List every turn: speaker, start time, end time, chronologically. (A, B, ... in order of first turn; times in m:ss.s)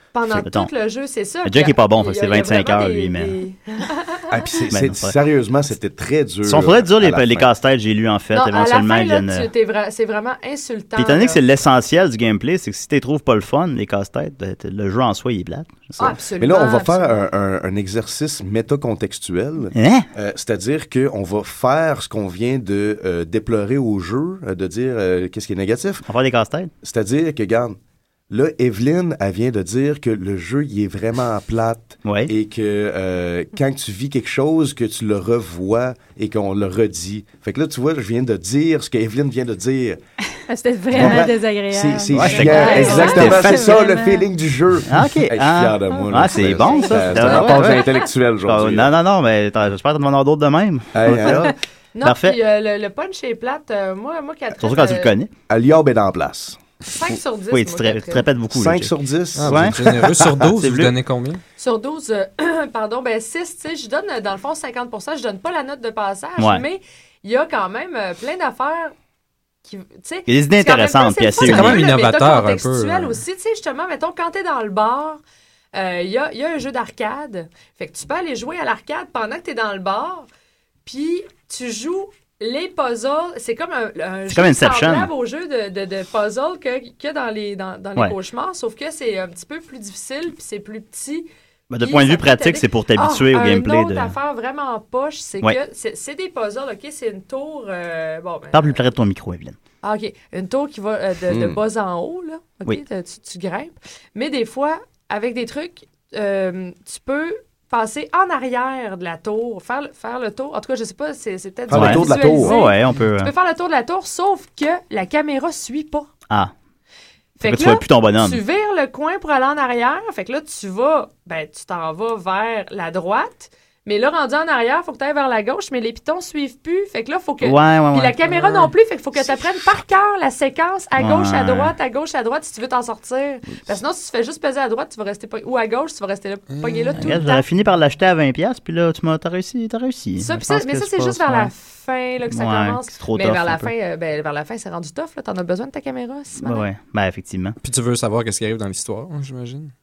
0:00.1-0:04.3 A
0:00.3-0:00.7 B
0:01.4-0:03.4 B
0:04.3-0:07.5 C
0:04.7-0:05.1 B
0:06.4-0:09.5 B
0:08.3-0:11.4 A
0:11.0-0:16.2 B
0:16.0-0:17.2 A
0:16.4-0:26.0 C
0:19.7-0:20.0 B
0:26.0-0:26.7 B
0:26.8-0:27.8 C
0:28.3-0:40.0 C
0:32.0-0:32.3 B
0:40.5-0:44.2 D
0:40.9-0:48.9 C
0:42.1-0:43.8 B
0:42.7-0:43.2 A
0:44.9-0:47.9 B
0:46.5-0:48.1 A
0:48.4-0:52.4 B
0:50.9-0:51.5 C
0:51.9-0:55.1 A
0:54.6-0:55.3 B
0:55.5-0:56.6 C
0:56.8-0:58.3 A
0:57.5-0:59.8 B
0:58.5-1:00.4 C
0:59.4-1:01.4 E
1:00.6-1:00.9 B
1:01.6-1:08.9 A
1:06.4-1:06.6 B
1:09.6-1:15.2 A
1:10.3-1:11.9 B
1:11.4-1:13.2 E
1:15.7-1:20.3 A
1:20.8-1:31.3 A
1:24.3-1:25.1 B
1:31.7-1:34.2 B
1:31.8-1:38.8 A
1:38.5-1:39.6 B
1:39.8-1:56.1 A
1:41.3-1:41.6 C
1:51.7-1:52.6 C
1:51.7-1:53.3 B
1:57.4-2:17.4 A
1:57.4-1:58.4 B
2:07.4-2:08.7 B
2:11.0-2:11.7 B
2:16.5-2:17.1 E
2:17.0-2:21.5 B
2:20.2-2:26.7 A
2:22.3-2:23.7 B
2:26.4-2:27.6 B
2:27.6-2:29.7 E